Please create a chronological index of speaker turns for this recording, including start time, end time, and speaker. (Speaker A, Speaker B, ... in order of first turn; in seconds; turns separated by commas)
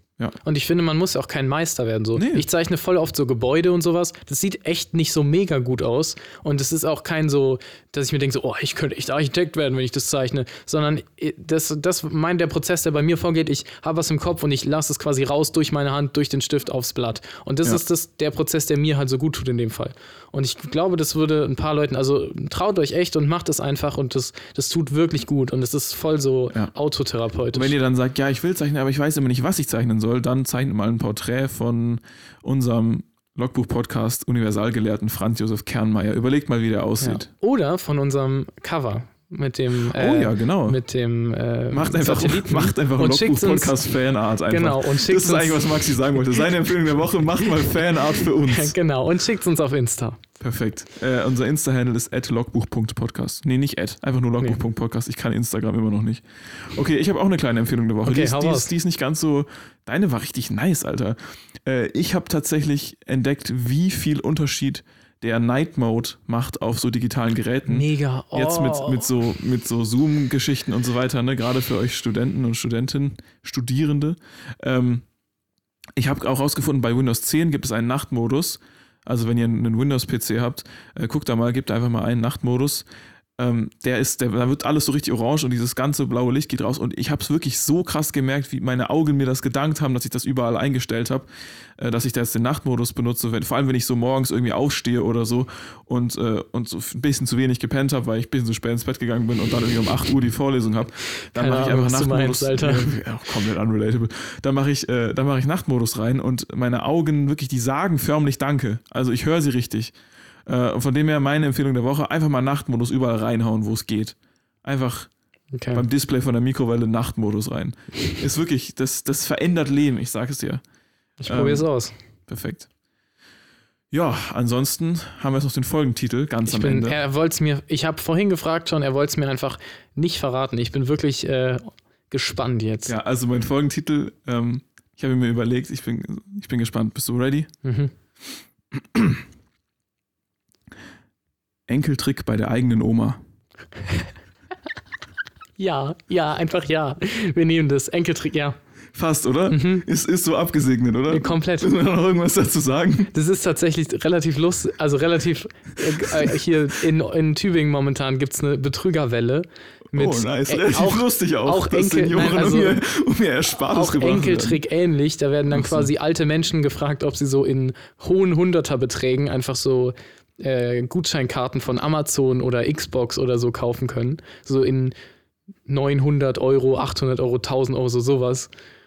Speaker A: 0.4-27.7, Speaker B: 2.2-2.4, Speaker B: 27.5-37.3, Speaker A: 37.0-43.8, Speaker B: 39.9-40.8, Speaker B: 41.7-48.7, Speaker A: 44.5-46.5, Speaker A: 47.5-50.2, Speaker B: 50.4-75.0, Speaker A: 58.0-58.7, Speaker A: 67.7-69.1, Speaker B: 76.0-82.9, Speaker B: 83.4-91.3, Speaker B: 91.8-110.0, Speaker A: 101.3-103.0, Speaker B: 110.5-115.1, Speaker A: 115.5-115.8, Speaker B: 115.7-120.6, Speaker A: 121.2-121.9, Speaker B: 121.2-121.7, Speaker B: 122.3-122.7, Speaker B: 123.9-127.0, Speaker A: 126.5-132.9, Speaker B: 132.9-137.5, Speaker A: 137.6-137.9, Speaker B: 138.7-139.2, Speaker B: 141.7-143.2, Speaker A: 143.8-144.1, Speaker A: 145.6-148.6, Speaker B: 148.9-153.1, Speaker A: 149.5-149.9, Speaker A: 151.1-151.7, Speaker A: 153.1-162.8, Speaker B: 156.0-156.3, Speaker B: 159.9-164.6, Speaker A: 163.5-174.9, Speaker B: 165.5-165.9, Speaker A: 175.7-178.5